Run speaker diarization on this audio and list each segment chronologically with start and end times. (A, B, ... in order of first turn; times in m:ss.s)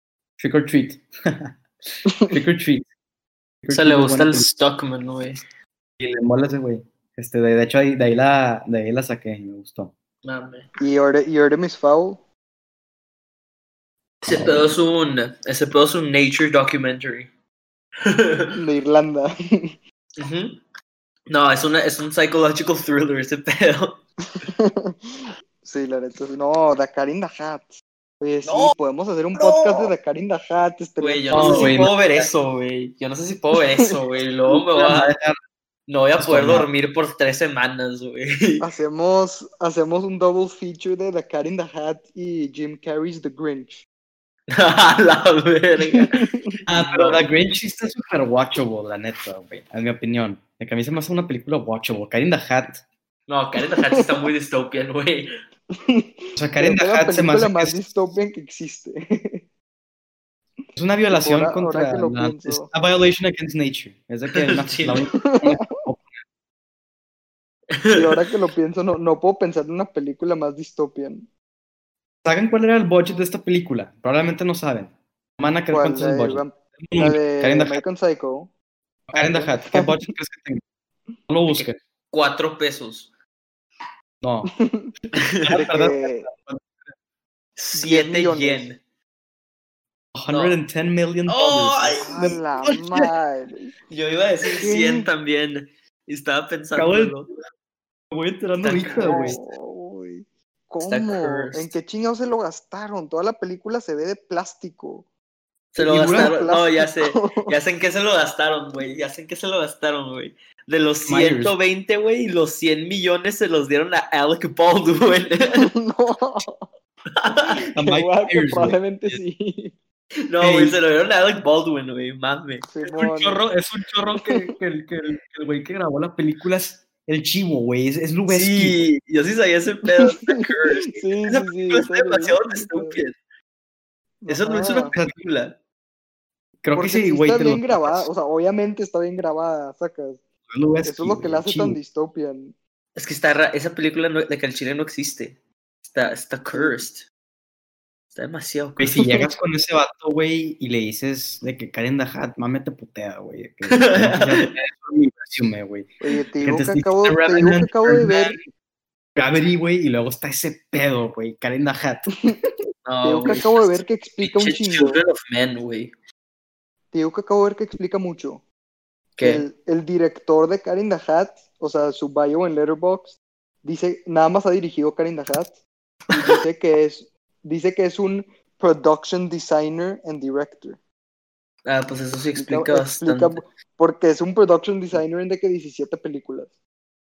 0:00.4-0:01.5 A
0:02.3-0:02.9 A
0:03.6-0:04.5 A
0:03.7-0:05.4 B
0:06.0-0:09.9 A
0:10.2-0:10.7 B
0:10.8-0:12.2 C
0:14.2-0:17.3 B
0:14.3-0:14.8 A
0:18.0-0:18.6 B
0:18.5-0:19.8 C
0:20.2-0:20.6 B
0:21.3-0:24.0 B
0:24.3-0:31.8 C
0:28.4-0:28.8 B
0:29.3-0:29.9 B
0:31.0-0:35.1 B
0:31.3-0:32.2 A
0:34.7-0:35.4 A
0:35.9-0:38.6 B
0:36.2-0:36.7 A
0:38.6-0:43.8 C
0:44.5-0:47.2 B
0:45.8-0:46.5 C
0:46.7-0:52.8 A
0:53.3-0:55.3 B
0:53.9-0:54.3 C
0:55.7-0:59.4 C
0:56.4-0:57.8 A
1:00.8-1:06.1 A
1:01.1-1:02.7 C
1:04.4-1:05.1 B
1:05.2-1:05.6 C
1:07.7-1:08.2 B
1:07.9-1:11.3 C
1:12.2-1:17.8 A
1:15.7-1:18.5 C
1:19.1-1:20.1 C
1:19.1-1:20.6 A
1:21.3-1:21.8 A
1:21.5-1:23.1 B
1:24.2-1:24.5 A
1:24.5-1:24.9 C
1:25.1-1:25.6 B
1:25.4-1:26.7 A
1:25.5-1:26.3 C
1:27.6-1:28.8 B
1:27.7-1:28.7 C
1:30.1-1:32.8 A
1:30.3-1:30.6 B
1:31.3-1:32.4 B
1:32.0-1:33.7 C
1:33.9-1:37.3 B
1:34.5-1:35.1 C
1:36.7-1:37.2 A
1:38.1-1:39.4 A
1:38.6-1:39.4 B
1:39.0-1:45.1 C
1:40.8-1:41.7 B
1:45.7-1:55.7 B
1:45.8-1:46.4 A
1:45.9-1:47.5 C
1:51.1-1:51.6 A
1:55.6-1:56.7 C
1:57.2-1:57.6 B
1:57.7-1:59.2 A
1:57.8-1:59.8 C
2:00.3-2:02.7 B
2:00.4-2:00.8 A
2:02.7-2:03.4 C
2:02.8-2:08.8 A
2:04.2-2:04.5 C
2:08.3-2:13.2 B
2:09.8-2:13.0 C
2:14.2-2:14.9 C
2:14.3-2:15.5 B
2:16.6-2:18.1 A
2:16.7-2:20.2 C
2:20.5-2:21.8 A
2:20.8-2:22.6 C
2:23.0-2:27.0 B
2:26.5-2:26.8 C
2:28.1-2:29.0 B
2:28.8-2:38.4 A
2:33.7-2:34.5 B
2:36.0-2:38.4 C
2:39.2-2:42.1 A
2:42.8-2:45.9 B
2:43.0-2:45.0 C
2:46.9-2:48.4 C
2:49.2-2:49.4 B
2:49.2-2:55.6 C
2:56.1-3:00.8 C
3:01.6-3:03.4 B
3:02.4-3:06.5 C